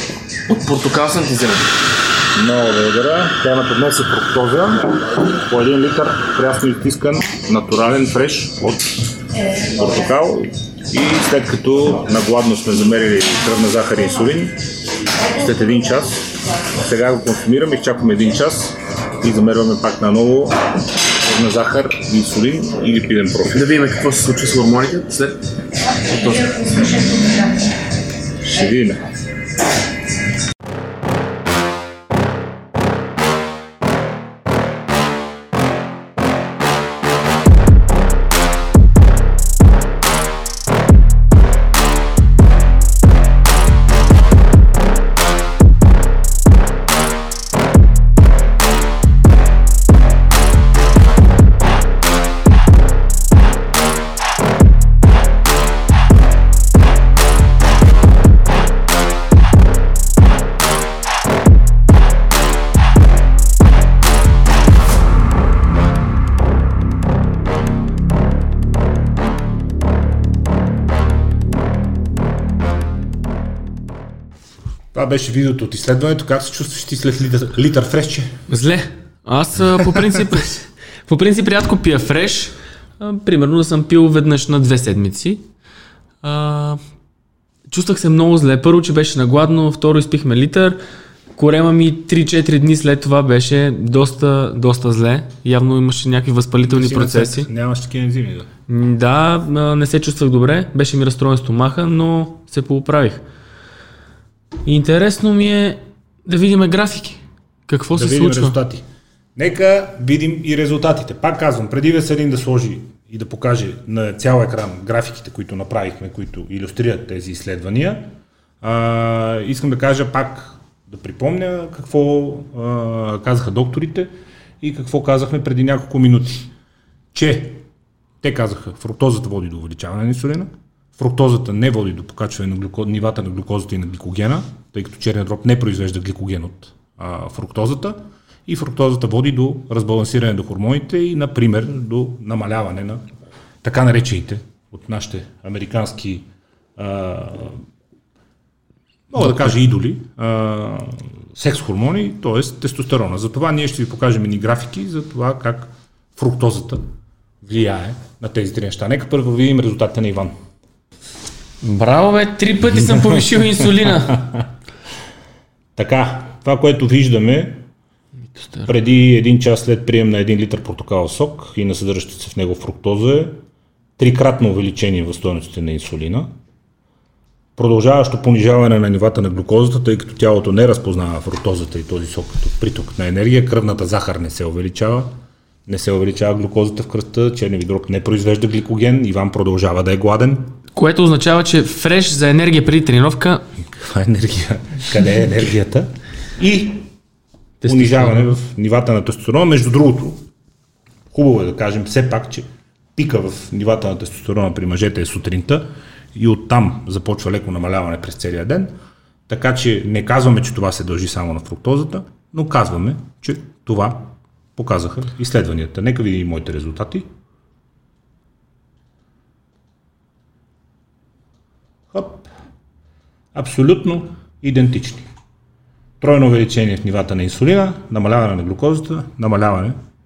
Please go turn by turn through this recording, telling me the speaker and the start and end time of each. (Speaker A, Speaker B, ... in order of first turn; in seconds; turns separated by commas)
Speaker A: 0.5-1.7, Speaker B: 2.3-9.0, Speaker B: 9.6-14.6, Speaker B: 15.3-23.9, Speaker A: 23.6-25.4, Speaker B: 28.4-29.1, Speaker B: 74.9-78.4, Speaker A: 78.5-85.4, Speaker A: 86.2-86.8, Speaker A: 87.7-90.8, Speaker A: 91.3-97.5, Speaker B: 96.7-98.5, Speaker A: 98.7-103.2, Speaker A: 104.6-108.6, Speaker B: 107.9-108.8, Speaker B: 109.3-124.1, Speaker B: 124.6-126.5, Speaker B: 127.1-127.7, Speaker B: 128.2-143.0, Speaker B: 143.6-147.6, Speaker B: 149.1-156.8, Speaker B: 157.4-160.3, Speaker A: 161.6-164.2, Speaker B: 164.1-164.5, Speaker B: 165.8-167.6, Speaker A: 168.3-168.7, Speaker B: 168.7-173.4, Speaker B: 174.0-176.3, Speaker B: 177.6-190.5, Speaker A: 190.7-193.4, Speaker B: 193.6-196.9, Speaker A: 197.6-198.4, Speaker B: 197.6-200.2, Speaker B: 201.1-208.7, Speaker B: 209.3-217.1, Speaker B: 221.9-222.3, Speaker B: 223.3-225.1, Speaker B: 226.0-229.8